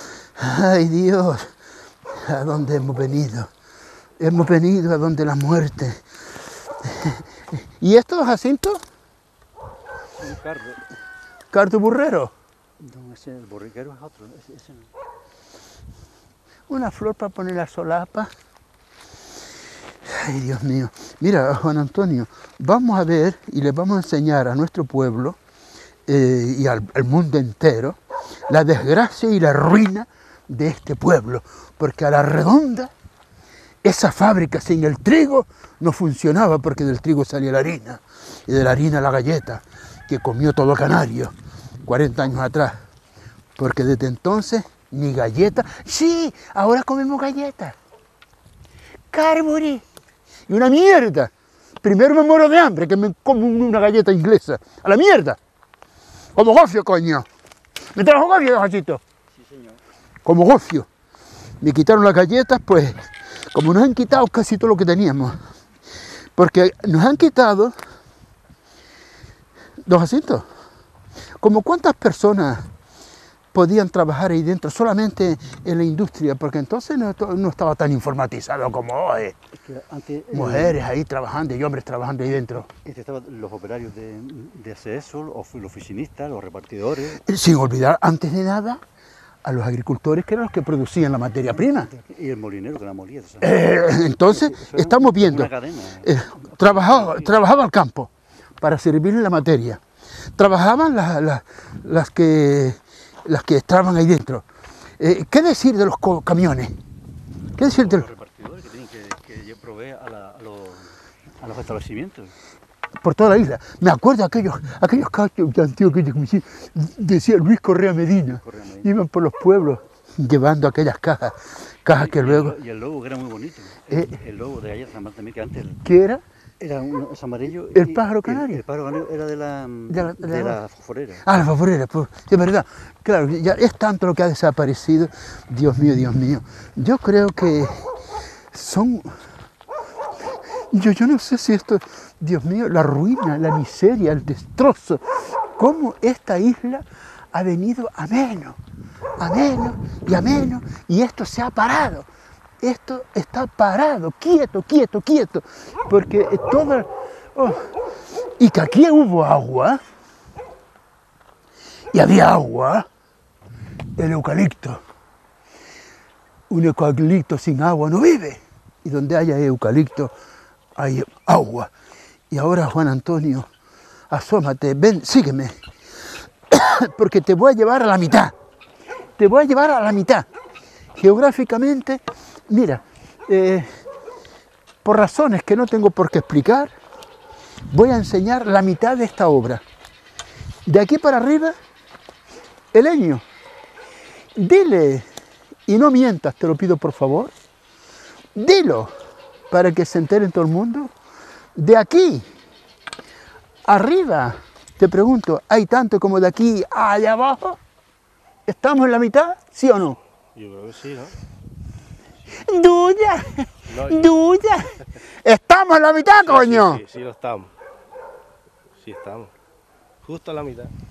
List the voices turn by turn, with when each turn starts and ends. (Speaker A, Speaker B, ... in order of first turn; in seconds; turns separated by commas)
Speaker A: 0.3-1.5, Speaker A: 2.1-3.5, Speaker A: 4.2-6.0, Speaker A: 6.8-8.8, Speaker B: 10.2-10.8, Speaker A: 11.5-12.3, Speaker B: 12.8-14.9, Speaker A: 16.7-18.3, Speaker A: 20.0-25.4, Speaker A: 26.1-32.9, Speaker A: 33.8-42.8, Speaker A: 43.5-47.7, Speaker A: 49.1-49.8, Speaker A: 50.5-51.3, Speaker A: 51.8-55.4, Speaker A: 56.3-57.2, Speaker A: 57.9-59.0, Speaker B: 59.3-59.8, Speaker A: 60.2-60.9, Speaker A: 61.6-65.4, Speaker A: 66.3-67.7, Speaker A: 69.8-70.5, Speaker A: 71.4-72.7, Speaker A: 73.5-79.3, Speaker B: 79.5-80.8, Speaker A: 80.3-82.7, Speaker B: 82.7-87.2, Speaker A: 87.2-88.8, Speaker A: 89.4-91.9, Speaker B: 91.6-97.4, Speaker A: 93.4-99.8, Speaker A: 100.4-104.4, Speaker A: 105.0-106.7, Speaker A: 107.5-108.1, Speaker B: 107.6-112.3, Speaker A: 113.0-122.5, Speaker B: 118.3-118.9, Speaker B: 121.9-125.8, Speaker A: 125.8-126.2, Speaker B: 126.6-131.3, Speaker A: 127.7-128.6, Speaker A: 129.9-130.6, Speaker A: 131.2-137.8, Speaker A: 138.5-139.2, Speaker A: 140.7-145.0, Speaker A: 145.6-148.6, Speaker A: 149.2-152.1, Speaker A: 152.6-157.7, Speaker A: 158.4-159.8, Speaker A: 161.9-162.8, Speaker A: 164.0-164.8, Speaker A: 166.5-170.1, Speaker A: 170.7-171.7, Speaker A: 172.3-173.5, Speaker A: 174.1-175.6, Speaker A: 176.5-178.3, Speaker A: 179.2-180.3, Speaker A: 180.9-183.7, Speaker A: 184.8-186.7, Speaker A: 187.7-189.6, Speaker A: 190.6-191.6, Speaker A: 192.7-193.2, Speaker A: 194.3-195.1, Speaker A: 195.7-197.3, Speaker A: 198.3-198.9, Speaker A: 199.5-200.9, Speaker A: 201.5-202.3, Speaker A: 203.6-207.6, Speaker A: 208.4-210.0, Speaker C: 210.3-211.2, Speaker A: 212.4-214.7, Speaker C: 213.7-214.1, Speaker A: 215.2-216.8, Speaker C: 216.2-217.5, Speaker C: 218.8-219.3, Speaker C: 220.0-220.7